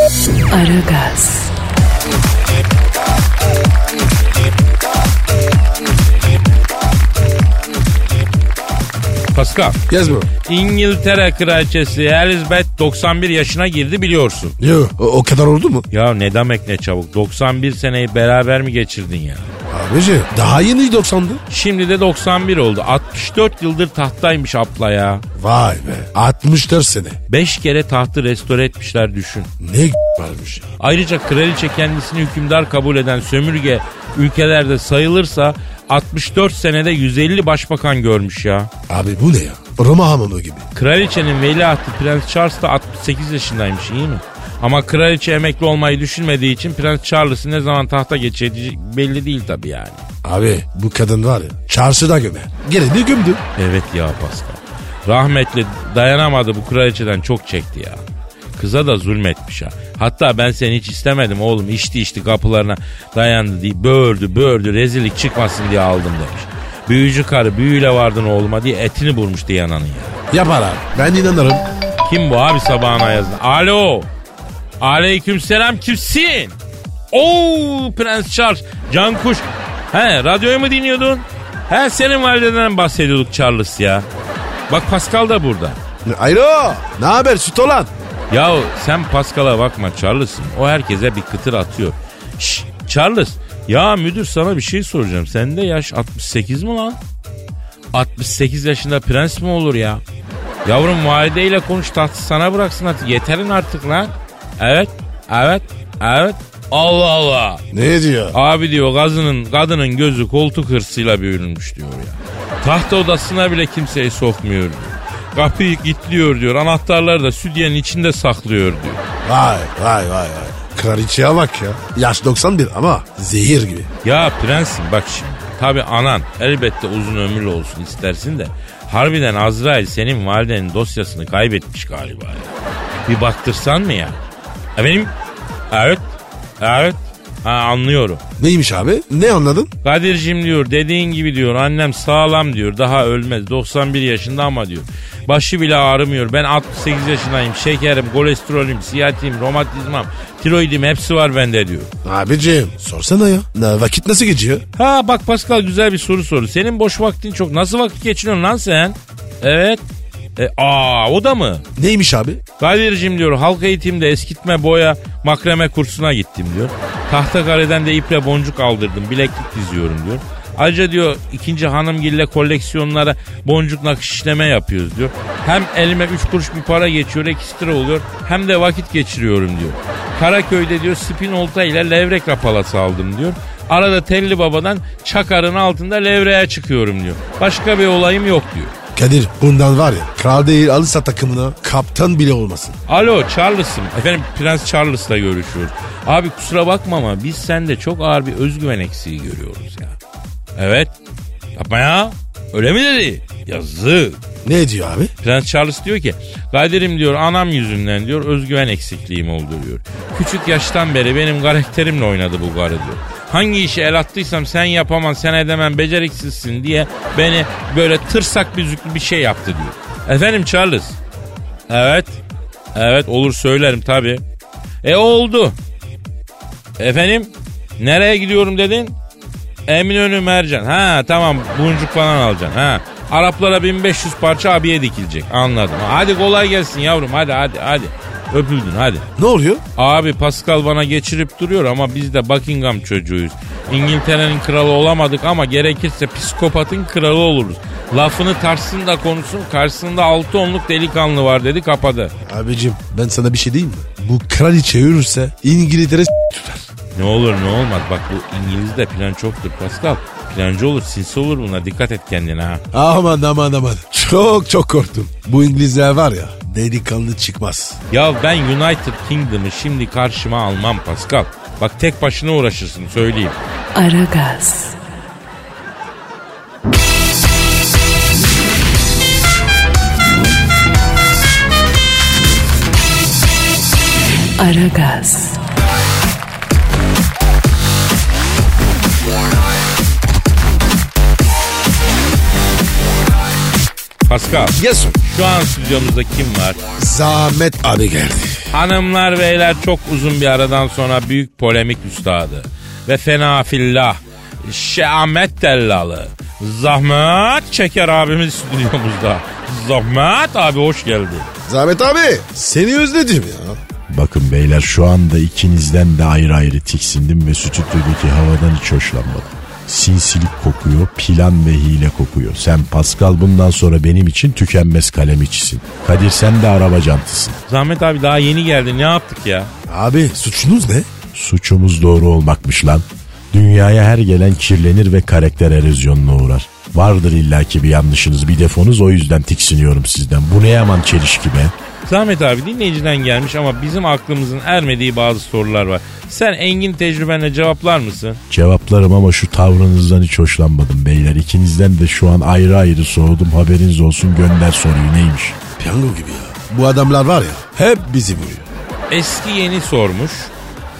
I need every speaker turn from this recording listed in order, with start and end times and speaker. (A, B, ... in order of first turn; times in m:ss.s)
0:00.5-0:01.5 A
0:09.3-0:09.8 B
0:09.9-0:10.3 C
0:10.4-0:14.6 B
0:14.6-0:15.9 C
0:15.9-0:19.5 B
0:19.7-0:21.4 C
0:21.5-0:25.2 B
0:25.4-0:27.2 C
0:27.3-0:29.5 B
0:29.6-0:30.7 C
0:30.8-0:38.7 B
0:38.9-0:40.6 C
0:40.7-0:50.0 B
0:50.2-0:53.4 C
0:53.6-0:58.0 B
0:58.6-1:10.2 B
1:10.3-1:11.6 C
1:12.0-1:14.1 B
1:14.8-1:16.6 B
1:17.1-1:24.0 B
1:24.7-1:25.8 B
1:26.0-1:27.9 C
1:28.3-1:37.0 B
1:37.9-1:40.0 B
1:40.6-1:47.6 B
1:47.7-1:48.4 C
1:48.3-1:59.0 B
1:59.2-2:03.9 C
2:04.0-2:12.5 B
2:13.1-2:14.2 B
2:14.8-2:15.1 B
2:15.7-2:18.2 B
2:18.4-2:19.7 C
2:19.8-2:31.9 B
2:32.0-2:34.6 C
2:34.8-2:39.8 B
2:40.4-2:41.6 B
2:41.8-2:42.4 C
2:42.6-3:08.7 B
3:09.0-3:12.8 C
3:12.9-3:20.0 B
3:20.6-3:20.9 B
3:21.6-3:24.2 B
3:24.4-3:25.1 C
3:25.2-3:41.0 B
3:41.7-3:42.2 B
3:42.7-3:44.2 B
3:44.8-3:45.6 B
3:46.8-3:49.0 B
3:49.7-3:59.1 B
3:59.2-3:59.6 C
3:59.8-4:12.1 B
4:12.2-4:16.7 C
4:16.9-4:22.6 B
4:22.7-4:27.8 C
4:27.9-4:33.4 B
4:33.7-4:34.8 A
4:44.4-4:45.4 A
4:54.0-4:56.6 B
4:54.6-4:55.0 C
4:56.8-4:58.4 C
4:58.5-5:11.3 B
5:11.5-5:13.6 C
5:13.9-5:27.4 D
5:27.5-5:29.5 B
5:29.7-5:30.9 C
5:31.1-5:41.5 D
5:41.8-5:48.2 B
5:48.3-5:55.4 D
5:55.6-5:58.5 C
5:58.9-6:00.3 B